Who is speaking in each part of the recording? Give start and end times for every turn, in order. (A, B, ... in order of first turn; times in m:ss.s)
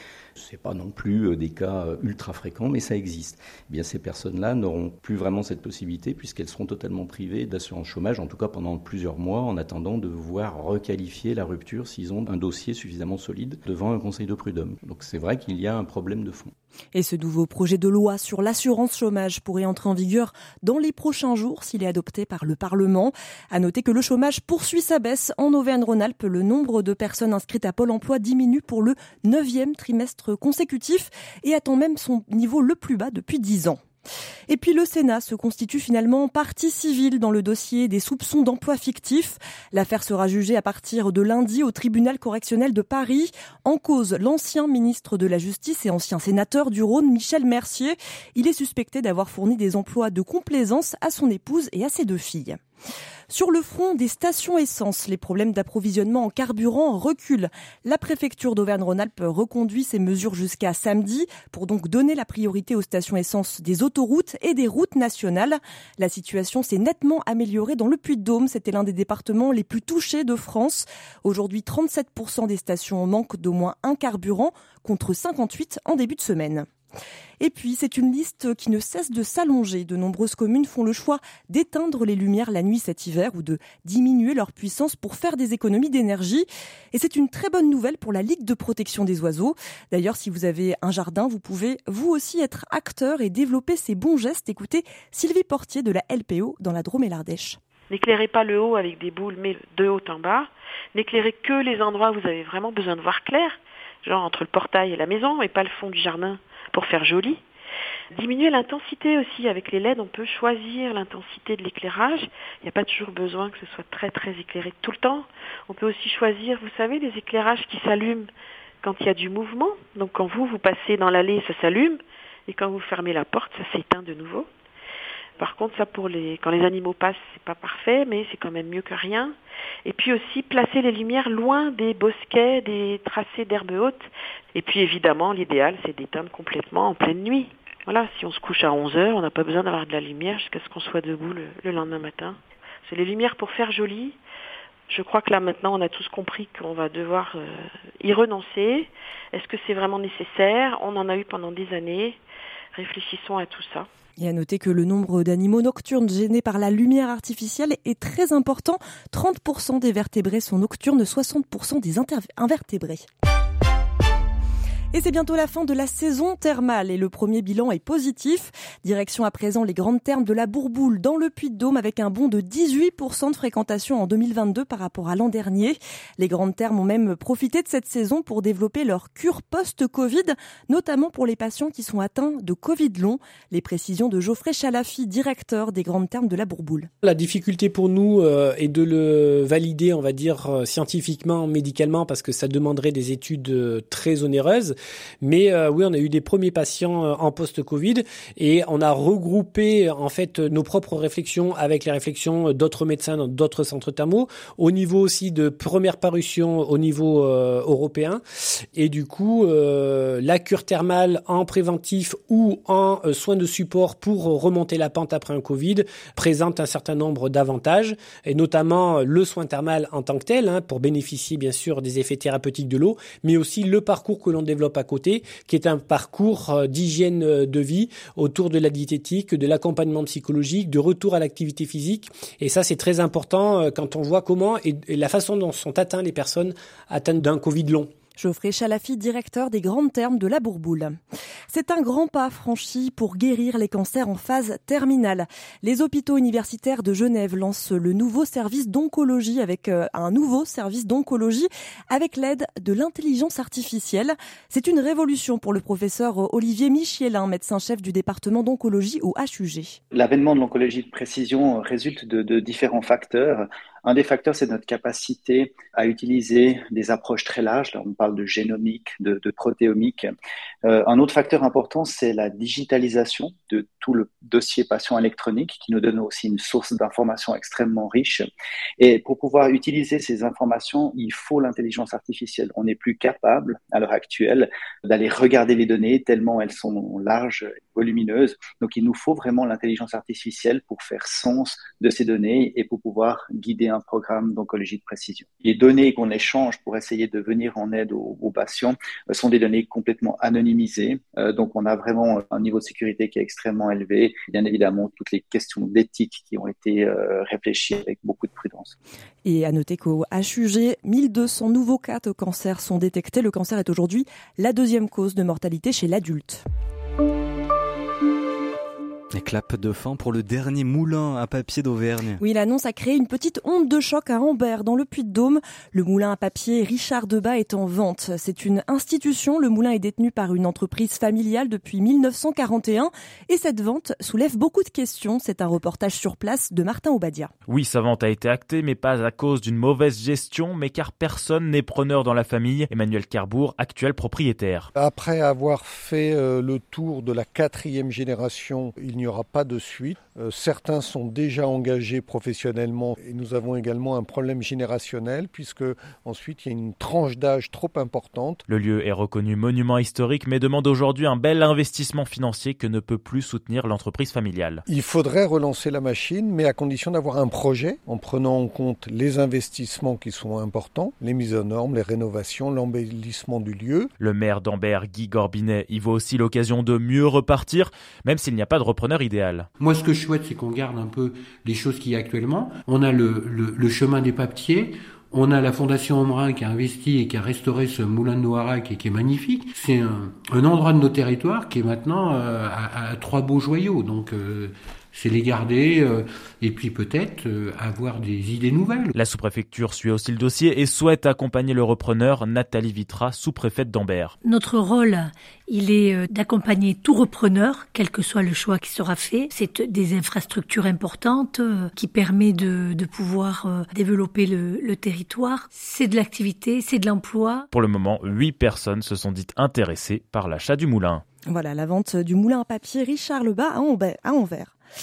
0:00.4-0:16.5 A
0:16.9-0:33.8 B
0:34.5-0:52.6 B
0:53.3-1:16.7 B
1:17.4-1:37.6 B
1:37.9-1:47.4 C
1:48.1-1:58.3 C
1:58.8-2:04.5 C
2:05.4-2:24.2 C
2:24.9-2:32.2 C
2:32.7-2:33.9 C
2:34.2-2:43.0 B
2:44.9-3:06.9 B
3:07.0-3:28.2 D
3:28.8-3:57.9 D
3:58.2-4:01.0 B
4:01.5-4:19.8 B
4:19.9-4:30.1 E
4:30.6-4:38.2 E
4:38.8-5:08.8 E
5:09.2-5:16.4 B
5:19.1-5:22.2 F
5:22.2-5:37.3 B
5:37.5-5:44.7 G
5:44.8-5:58.4 H
5:58.5-6:04.6 G
6:04.7-6:13.9 H
6:14.0-6:19.5 G
6:19.6-6:38.9 I
6:38.9-6:44.1 G
6:44.2-6:57.4 J
6:57.5-7:01.0 G
7:01.2-7:04.5 B